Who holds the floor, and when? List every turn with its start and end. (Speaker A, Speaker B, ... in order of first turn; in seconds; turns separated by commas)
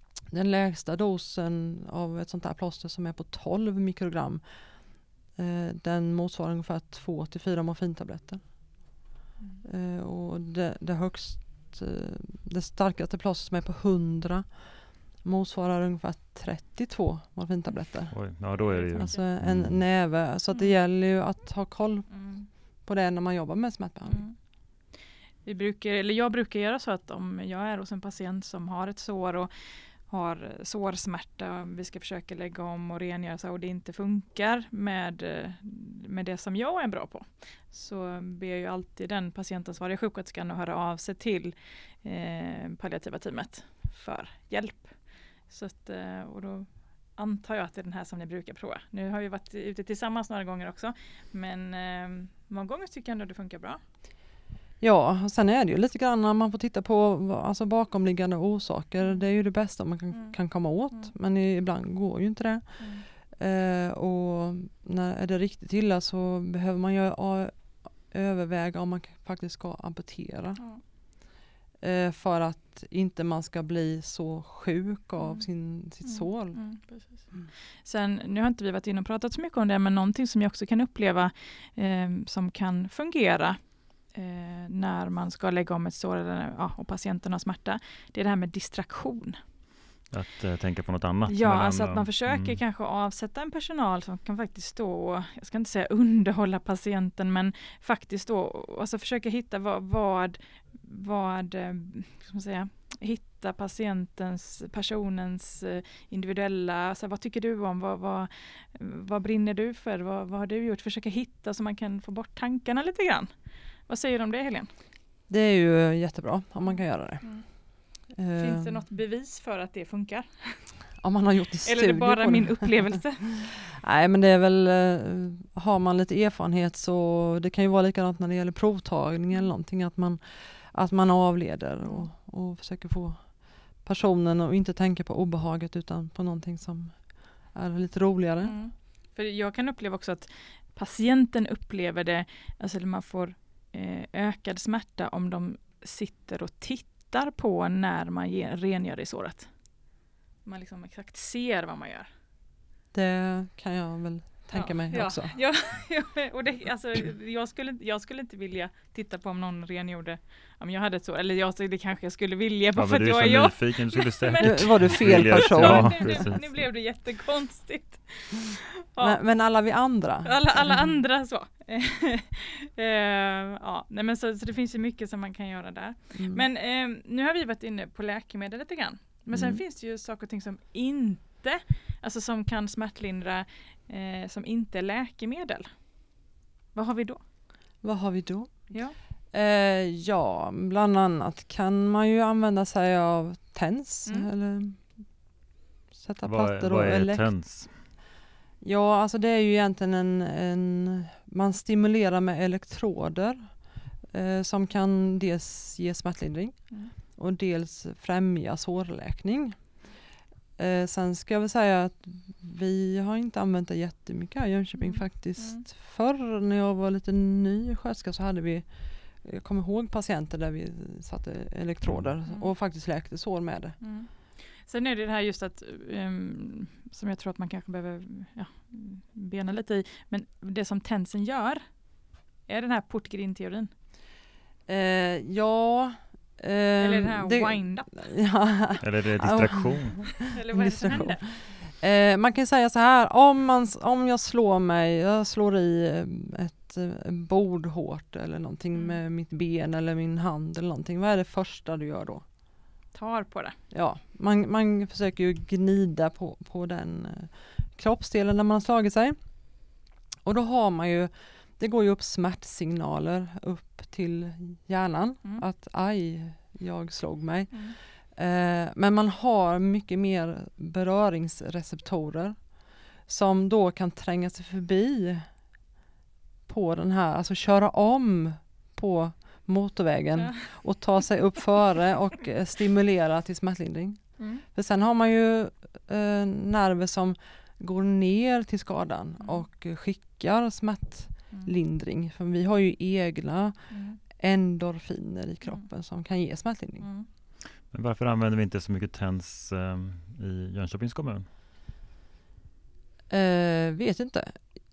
Speaker A: 0.3-8.9, Speaker A: 9.6-18.4, Speaker B: 18.1-19.9, Speaker C: 18.6-19.2, Speaker A: 19.0-24.2, Speaker C: 22.1-22.5, Speaker C: 24.1-24.4, Speaker C: 24.9-53.8, Speaker A: 54.8-70.6, Speaker C: 60.1-60.4, Speaker C: 62.8-63.1, Speaker A: 71.8-76.6, Speaker C: 75.2-89.4, Speaker B: 90.1-92.6, Speaker C: 91.3-114.7, Speaker A: 115.3-117.4, Speaker C: 116.7-120.9, Speaker A: 118.1-118.8, Speaker A: 121.0-138.6, Speaker C: 121.7-123.5, Speaker C: 131.8-132.1, Speaker C: 138.4-149.5, Speaker C: 150.4-152.1, Speaker A: 152.9-155.4, Speaker C: 154.5-169.2, Speaker B: 162.8-166.7, Speaker A: 164.4-166.3, Speaker A: 169.0-171.0, Speaker C: 170.2-186.2, Speaker A: 176.1-176.4, Speaker A: 179.3-179.6, Speaker C: 186.8-187.2, Speaker A: 187.8-195.1, Speaker A: 195.9-197.3, Speaker B: 196.2-197.8, Speaker A: 198.6-209.7, Speaker A: 210.6-223.8, Speaker C: 214.8-215.7, Speaker B: 221.8-222.1, Speaker C: 222.3-222.5, Speaker C: 223.8-233.7, Speaker A: 234.7-252.2, Speaker C: 236.8-238.1, Speaker B: 238.8-240.2, Speaker C: 240.3-241.3, Speaker C: 248.7-249.0, Speaker C: 252.9-253.6, Speaker A: 253.7-259.2, Speaker A: 260.2-275.3, Speaker A: 276.5-296.9, Speaker C: 284.2-284.4, Speaker C: 293.7-294.0, Speaker C: 296.8-297.1, Speaker B: 297.6-301.3, Speaker A: 303.1-304.5